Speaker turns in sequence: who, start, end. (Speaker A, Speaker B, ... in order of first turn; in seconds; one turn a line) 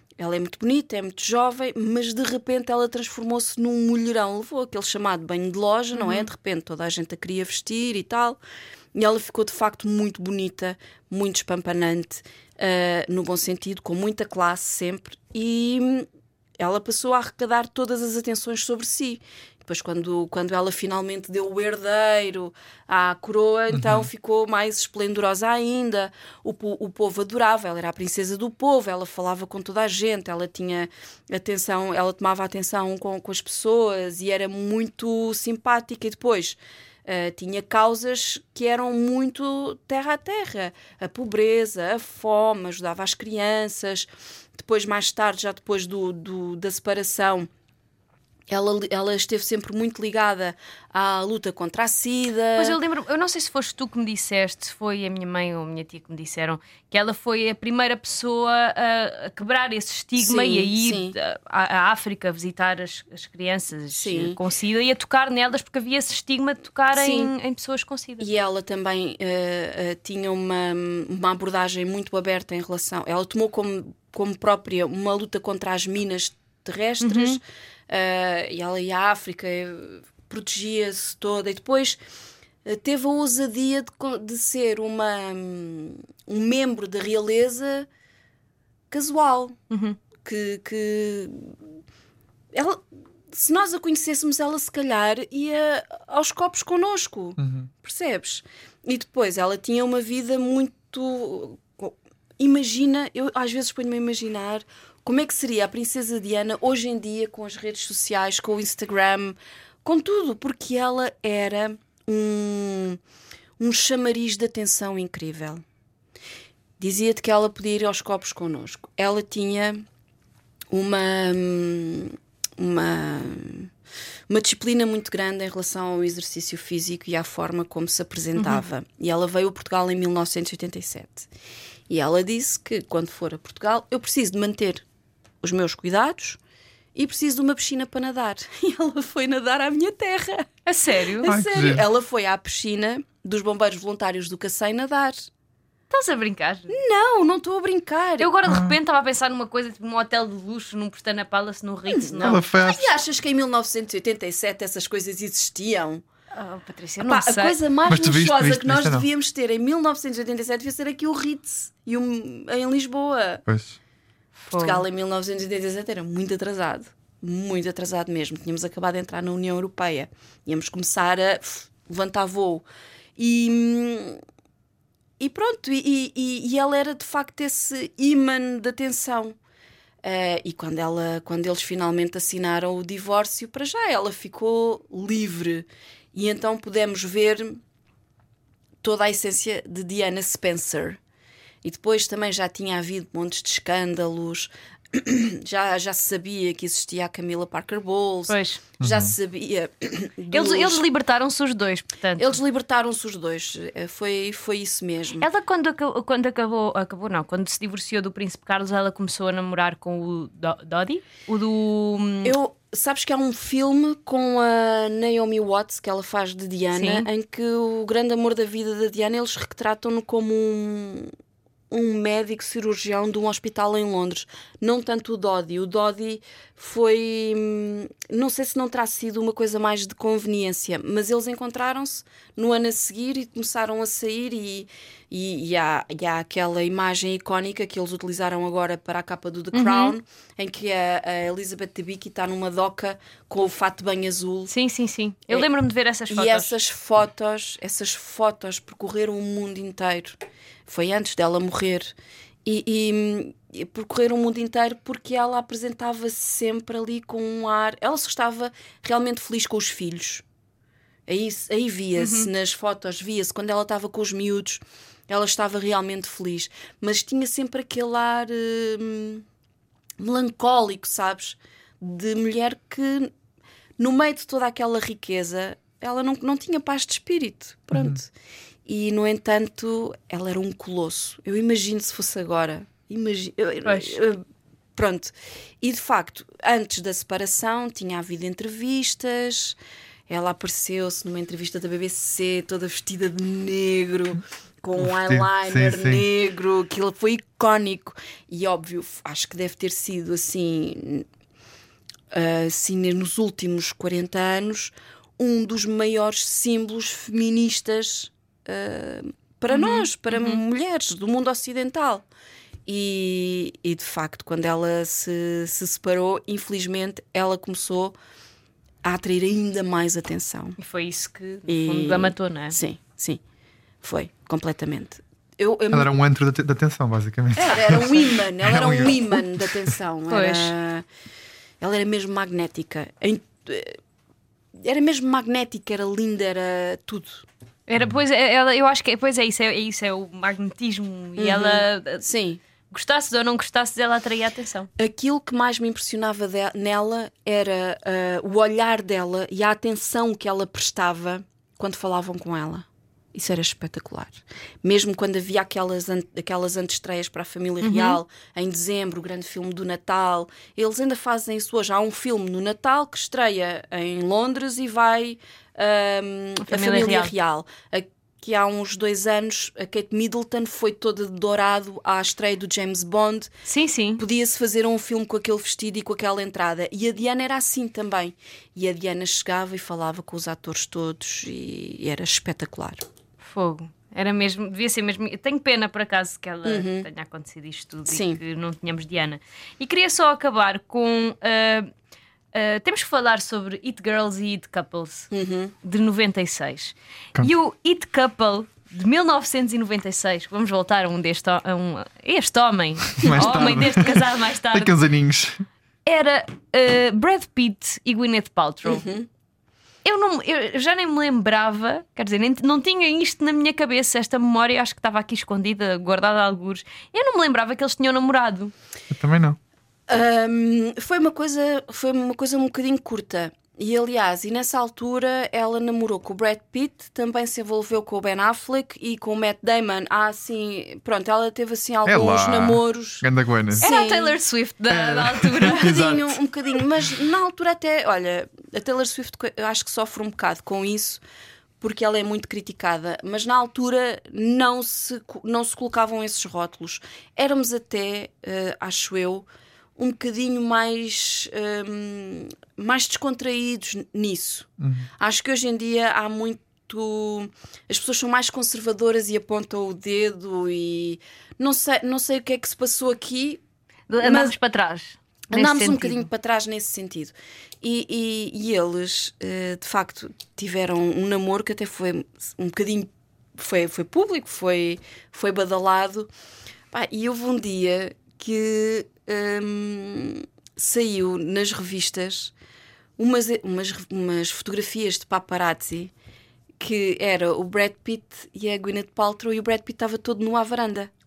Speaker A: 0.2-8.4
Speaker B: 5.9-6.3
Speaker A: 8.9-16.1
Speaker A: 16.6-47.5
Speaker C: 23.7-24.1
Speaker A: 48.5-52.8
Speaker B: 52.6-68.3
Speaker A: 60.2-61.2
Speaker A: 63.9-64.4
Speaker A: 66.9-67.3
Speaker A: 68.2-82.0
Speaker B: 77.0-77.4
Speaker A: 82.7-87.9
Speaker A: 88.9-89.6
Speaker B: 89.7-90.0
Speaker A: 90.2-91.5
Speaker A: 92.5-113.0
Speaker C: 97.4-97.7
Speaker A: 113.6-115.6
Speaker A: 116.8-119.8
Speaker A: 120.7-123.7
Speaker A: 124.3-131.3
Speaker B: 128.4-128.6
Speaker A: 131.9-134.8
Speaker A: 135.4-136.4
Speaker A: 136.9-140.5
Speaker B: 140.7-141.3
Speaker A: 141.1-145.3
Speaker C: 141.2-141.9
Speaker B: 145.9-146.7
Speaker A: 146.7-148.3
Speaker B: 148.2-152.4
Speaker C: 148.4-148.8
Speaker A: 151.9-156.0
Speaker C: 152.2-152.9
Speaker B: 156.3-157.6
Speaker A: 157.0-163.4
Speaker C: 157.9-159.1
Speaker C: 163.5-163.8
Speaker B: 164.5-164.8
Speaker A: 164.5-172.6
Speaker A: 173.2-174.2
Speaker A: 175.2-179.4
Speaker A: 180.0-187.6
Speaker A: 188.8-191.0
Speaker A: 191.6-200.8
Speaker B: 198.3-198.6
Speaker C: 198.8-199.1
Speaker B: 200.3-202.4
Speaker A: 202.2-205.3
Speaker B: 205.2-212.3
Speaker A: 212.2-221.1
Speaker B: 216.7-217.1
Speaker A: 221.7-244.5
Speaker B: 239.5-239.9
Speaker B: 244.5-246.5
Speaker A: 246.1-250.2
Speaker A: 250.7-251.9
Speaker A: 252.4-260.2
Speaker A: 261.1-269.2
Speaker B: 262.0-262.3
Speaker A: 270.0-273.1
Speaker A: 273.8-278.1
Speaker A: 278.7-284.2
Speaker B: 283.6-284.0
Speaker A: 284.8-289.6
Speaker A: 290.1-301.1
Speaker C: 294.8-296.1
Speaker A: 302.1-312.1
Speaker B: 309.5-310.4
Speaker A: 312.7-318.0
Speaker A: 318.8-320.6
Speaker B: 320.6-322.6
Speaker A: 321.5-323.2
Speaker A: 323.8-325.9
Speaker C: 325.7-329.7
Speaker A: 327.4-330.9
Speaker B: 330.1-330.5
Speaker A: 331.6-333.8
Speaker A: 334.6-337.2
Speaker B: 337.7-342.1
Speaker A: 341.2-342.4
Speaker B: 342.7-344.7
Speaker A: 344.8-373.3
Speaker B: 357.6-358.0
Speaker B: 366.4-367.1
Speaker B: 373.5-374.0
Speaker A: 374.0-382.8
Speaker B: 383.2-391.7
Speaker A: 386.4-386.9
Speaker A: 387.9-388.2
Speaker B: 392.3-395.1
Speaker A: 395.1-395.5
Speaker B: 395.6-404.7
Speaker C: 403.0-405.4
Speaker B: 405.9-408.9
Speaker A: 408.7-409.1
Speaker B: 409.8-418.5
Speaker C: 418.9-419.4
Speaker A: 419.9-434.2
Speaker C: 431.9-433.7
Speaker B: 433.6-435.9
Speaker C: 434.7-436.2
Speaker A: 435.5-441.0
Speaker A: 441.6-449.3
Speaker A: 449.8-454.5
Speaker C: 454.6-454.9
Speaker A: 455.0-463.4
Speaker B: 463.9-466.1
Speaker A: 464.0-464.4
Speaker A: 465.3-476.1
Speaker A: 476.7-482.3
Speaker A: 483.0-485.9
Speaker A: 486.6-490.9